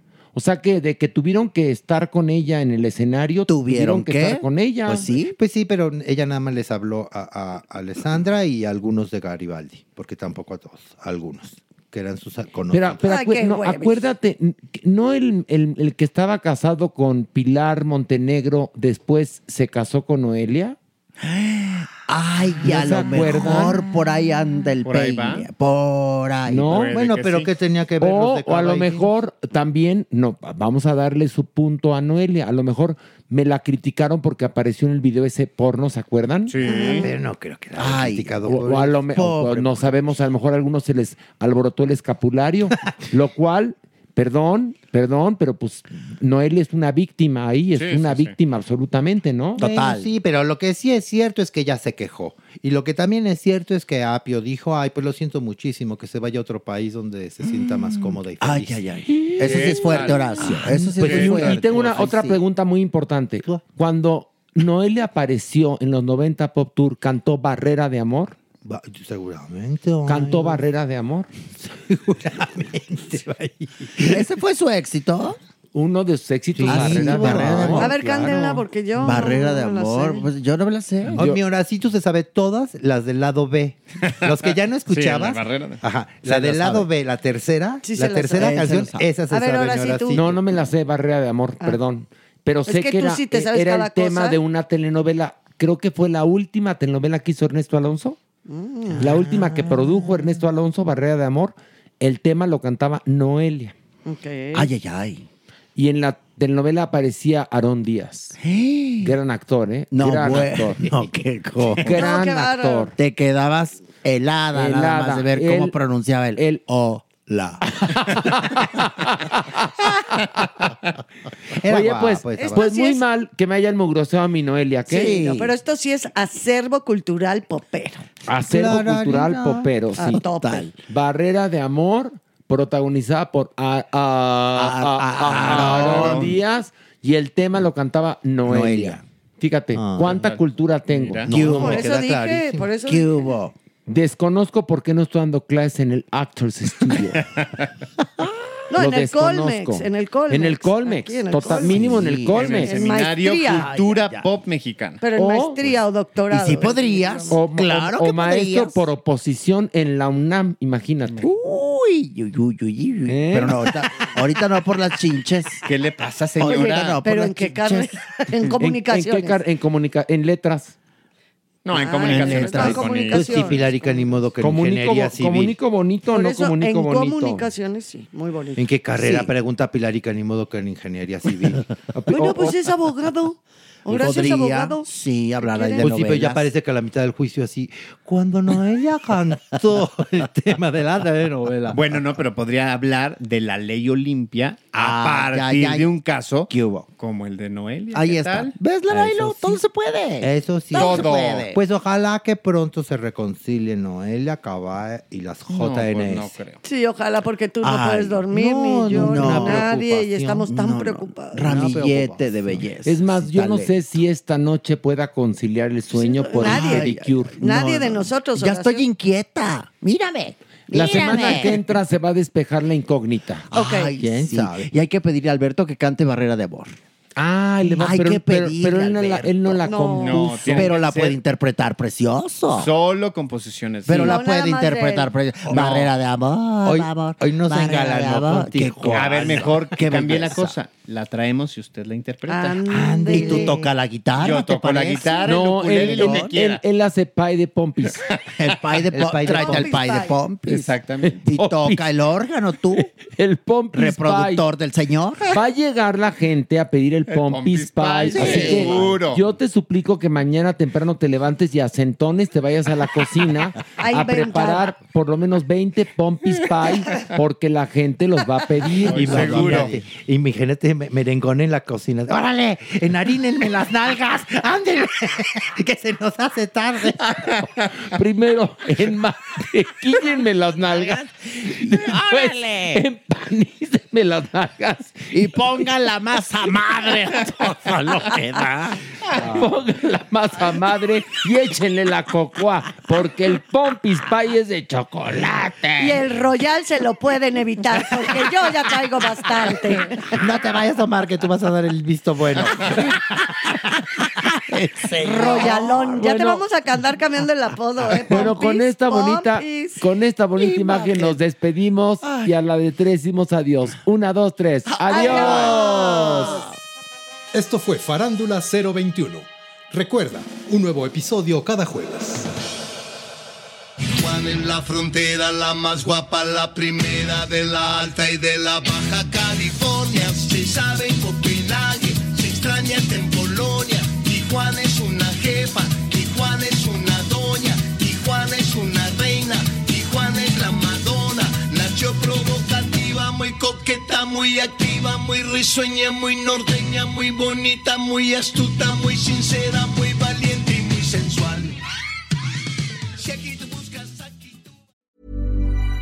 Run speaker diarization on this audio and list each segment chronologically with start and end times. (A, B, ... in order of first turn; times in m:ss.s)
0:00.3-0:05.1 A
0:03.5-0:05.4 B
0:04.9-0:13.0 C
0:12.7-0:20.8 A
0:13.0-0:14.0 D
0:21.2-0:26.7 B
0:22.6-0:23.8 A
0:24.8-0:25.5 E
0:26.4-0:26.9 A
0:26.6-0:27.5 E
0:26.8-0:29.1 C
0:28.0-0:36.6 A
0:36.5-0:37.0 E
0:36.6-0:37.1 D
0:36.6-0:39.1 C
0:37.8-0:38.5 B
0:38.4-0:49.6 A
0:39.1-0:39.8 B
0:47.7-0:48.3 E
0:49.6-1:02.3 C
0:49.6-0:50.1 B
0:57.9-1:02.4 B
0:59.4-1:02.0 E
1:00.7-1:08.4 A
1:08.6-1:10.6 C
1:10.0-1:11.3 A
1:11.6-1:14.2 C
1:14.0-1:15.4 B
1:15.7-1:17.9 A
1:16.5-1:19.4 C
1:16.6-1:18.4 B
1:17.7-1:20.3 D
1:19.0-1:21.2 B
1:21.2-1:30.4 C
1:24.3-1:25.8 E
1:26.2-1:26.9 B
1:27.8-1:28.8 D
1:28.3-1:29.0 B
1:29.3-1:30.2 D
1:30.1-1:38.2 A
1:32.7-1:34.4 D
1:38.5-1:39.0 D
1:38.9-1:40.4 C
1:39.0-1:43.7 A
1:44.0-1:44.7 D
1:44.5-1:45.2 B
1:45.8-1:48.4 A
1:48.4-1:49.2 B
1:49.0-1:50.9 A
1:49.9-1:51.9 B
1:51.6-1:51.9 C
1:51.8-1:52.9 A
1:51.9-1:52.9 D
1:53.0-1:57.6 B
1:54.5-1:55.8 A
1:56.4-1:56.6 A
1:57.7-2:00.4 A
2:01.6-2:02.7 C
2:01.6-2:05.2 A
2:02.4-2:03.0 D
2:04.9-2:05.5 B
2:04.9-2:08.0 D
2:08.3-2:10.2 A
2:08.5-2:09.7 C
2:09.9-2:10.7 D
2:10.2-2:10.8 B
2:10.8-2:21.7 A
2:14.5-2:16.3 B
2:15.2-2:16.3 E
2:15.7-2:16.0 C
2:18.4-2:19.0 B
2:19.8-2:20.2 C
2:20.0-2:21.3 E
2:21.3-2:21.9 B
2:21.3-2:22.7 C
2:21.6-2:23.3 D
2:22.8-2:23.5 B
2:23.8-2:27.2 A
2:27.1-2:27.6 E
2:28.7-2:32.0 D
2:28.7-2:32.7 A
2:31.4-2:32.6 B
2:32.2-2:35.0 E
2:32.5-2:33.7 D
2:33.4-2:34.3 B
2:35.0-2:37.4 D
2:35.2-2:35.7 A
2:36.3-2:38.8 B
2:37.3-2:41.3 A
2:41.2-2:45.6 B
2:43.1-2:43.6 A
2:45.6-2:47.0 E
2:46.4-2:48.0 B
2:46.5-2:49.4 D
2:48.5-2:50.7 A
2:51.6-2:53.6 E
2:51.7-2:54.0 D
2:52.1-2:55.5 C
2:54.4-2:57.5 A
2:56.1-2:58.6 D
2:58.6-3:01.6 C
2:59.0-2:59.3 B
3:01.9-3:02.6 A
3:02.1-3:04.9 D
3:03.8-3:06.4 B
3:05.4-3:05.9 D
3:05.8-3:12.1 C
3:11.7-3:18.6 E
3:14.7-3:15.9 B
3:16.5-3:16.9 B
3:17.9-3:21.6 B
3:18.9-3:19.6 C
3:20.2-3:26.4 C
3:20.7-3:21.5 E
3:25.5-3:26.6 E
3:26.6-3:31.5 D
3:27.6-3:28.3 B
3:28.3-3:32.7 C
3:28.9-3:29.7 B
3:30.5-3:33.7 B
3:32.8-3:37.4 A
3:35.9-3:38.8 D
3:36.4-3:41.6 B
3:40.7-3:43.5 A
3:40.8-3:41.4 D
3:43.5-3:46.8 B
3:43.5-3:43.9 D
3:44.0-3:44.7 C
3:47.2-3:50.8 A
3:47.7-3:49.7 B
3:49.6-3:50.2 D
3:50.0-3:51.2 E
3:50.4-3:52.7 B
3:52.5-3:54.2 E
3:53.8-4:00.6 B
3:54.0-3:55.1 D
3:55.4-3:56.0 C
3:56.6-3:59.6 C
3:58.9-4:02.6 E
4:02.3-4:03.6 D
4:02.7-4:03.7 C
4:03.1-4:06.3 B
4:04.1-4:06.6 E
4:05.2-4:08.0 A
4:08.4-4:10.6 B
4:08.9-4:09.8 C
4:09.2-4:10.2 D
4:10.4-4:11.2 E
4:10.5-4:11.9 A
4:11.2-4:12.9 B
4:12.6-4:14.4 A
4:13.7-4:15.3 B
4:15.3-4:29.8 A
4:17.1-4:19.2 E
4:18.1-4:19.0 B
4:18.2-4:18.5 C
4:23.8-4:24.7 D
4:28.8-4:29.7 E
4:28.8-4:37.4 C
4:37.9-4:46.9 A
4:40.7-4:41.0 B
4:41.8-4:42.8 B
4:45.1-4:48.8 B
4:49.1-4:56.0 A
4:55.8-5:00.1 D
5:00.1-5:03.0 C
5:04.5-5:06.1 B
5:05.0-5:09.8 D
5:05.2-5:06.4 A
5:08.0-5:15.6 A
5:10.4-5:11.2 B
5:12.0-5:12.3 B
5:14.7-5:16.4 B
5:14.9-5:16.5 D
5:17.3-5:22.3 F
5:24.0-5:51.6 G
5:53.0-5:54.4 G